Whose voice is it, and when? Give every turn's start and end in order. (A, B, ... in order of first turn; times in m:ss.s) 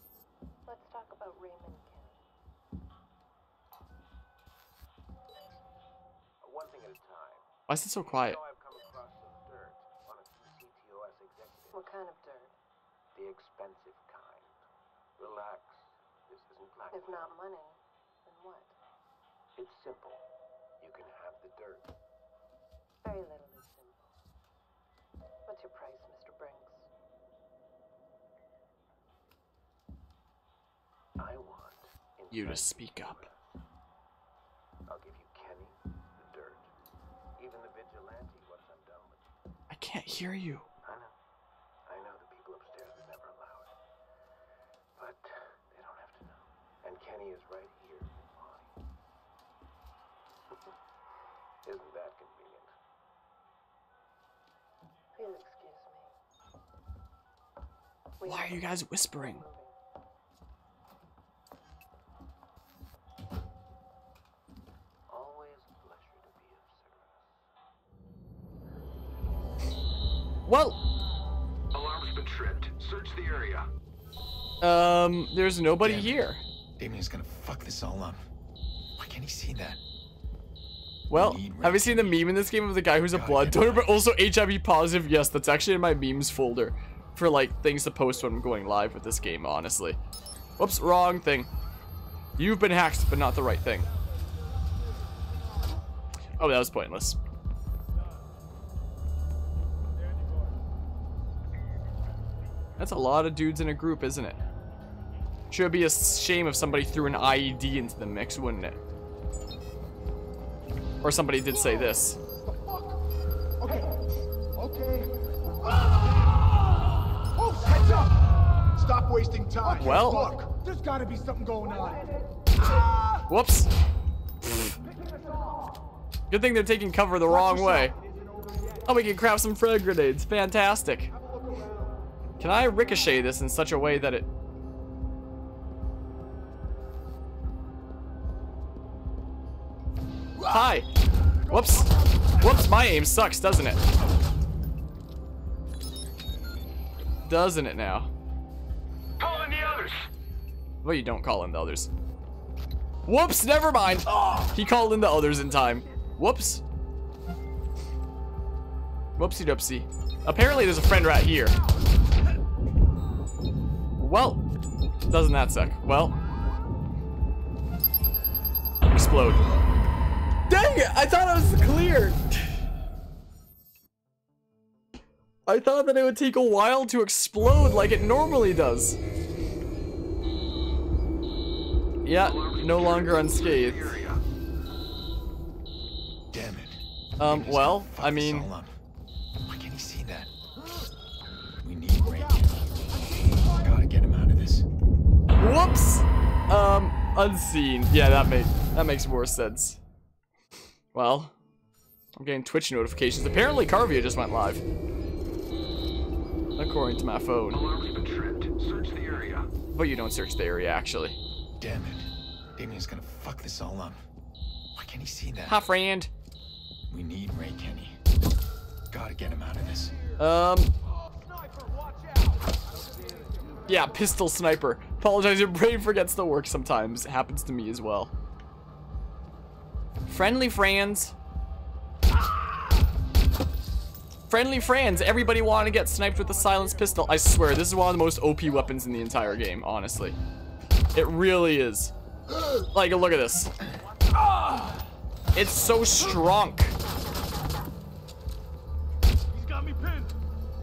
0:00.6-0:02.2 A
0:06.4-0:07.5 B
0:07.7-0:08.4 C
0:08.0-0:11.9 B
0:11.7-0:12.6 A
0:13.2-0:14.5 B
0:15.2-0:17.4 B
0:16.9-0:18.8 A
0:19.6-0:20.2 B
0:20.8-0:21.9 B
0:23.0-0:24.1 A
0:25.5-0:26.9 A
0:31.2-0:33.6 B
0:32.3-0:33.3 C
0:34.9-0:36.7 B
0:37.4-0:39.3 B
0:39.7-0:40.7 C
0:40.8-0:41.1 B
0:41.9-0:43.7 B
0:45.0-0:48.7 B
0:51.6-0:52.7 B
0:55.2-0:56.1 A
0:58.2-0:59.8 A
0:58.2-0:59.4 C
1:05.1-1:07.4 B
1:10.4-1:10.8 C
1:11.7-1:13.7 D
1:14.6-1:16.4 C
1:15.8-1:16.2 E
1:16.8-1:18.3 E
1:19.0-1:19.8 E
1:21.1-1:30.0 C
1:21.1-1:22.3 E
1:23.0-1:24.0 E
1:30.6-1:31.5 C
1:32.4-1:33.9 C
1:36.4-1:37.2 C
1:42.8-1:44.4 C
1:45.5-1:48.8 C
1:51.0-1:52.2 C
1:52.5-1:53.0 F
1:53.6-1:54.0 F
1:54.6-1:56.0 F
1:57.3-2:02.1 F
1:59.7-2:00.4 C
2:02.7-2:03.2 F
2:03.3-2:03.7 C
2:04.4-2:04.7 C
2:06.3-2:08.0 C
2:08.8-2:11.1 C
2:12.4-2:14.3 C
2:20.4-2:20.9 C
2:21.5-2:23.8 C
2:27.2-2:28.1 C
2:29.2-2:30.0 D
2:30.8-2:31.9 C
2:33.1-2:36.6 C
2:39.2-2:41.6 C
2:44.0-2:44.4 C
2:45.1-2:46.2 C
2:48.9-2:49.4 C
2:50.5-2:52.3 C
2:55.5-2:59.0 C
3:02.0-3:04.0 C
3:02.2-3:04.2 D
3:06.3-3:08.8 E
3:07.2-3:08.5 C
3:09.5-3:10.3 E
3:11.6-3:12.7 E
3:13.4-3:14.7 E
3:15.4-3:19.8 C
3:20.9-3:21.4 C
3:22.2-3:24.6 C
3:26.6-3:27.6 C
3:27.5-3:29.5 D
3:29.7-3:31.2 C
3:31.6-3:34.0 E
3:34.8-3:35.6 E
3:35.5-3:36.1 C
3:36.9-3:38.0 E
3:38.9-3:40.0 E
3:40.2-3:40.7 C
3:43.2-3:43.5 B
3:43.7-3:48.1 C
3:50.1-3:51.2 C
3:54.3-4:00.2 C
4:00.9-4:01.9 C
4:02.7-4:03.5 C
4:05.4-4:06.8 C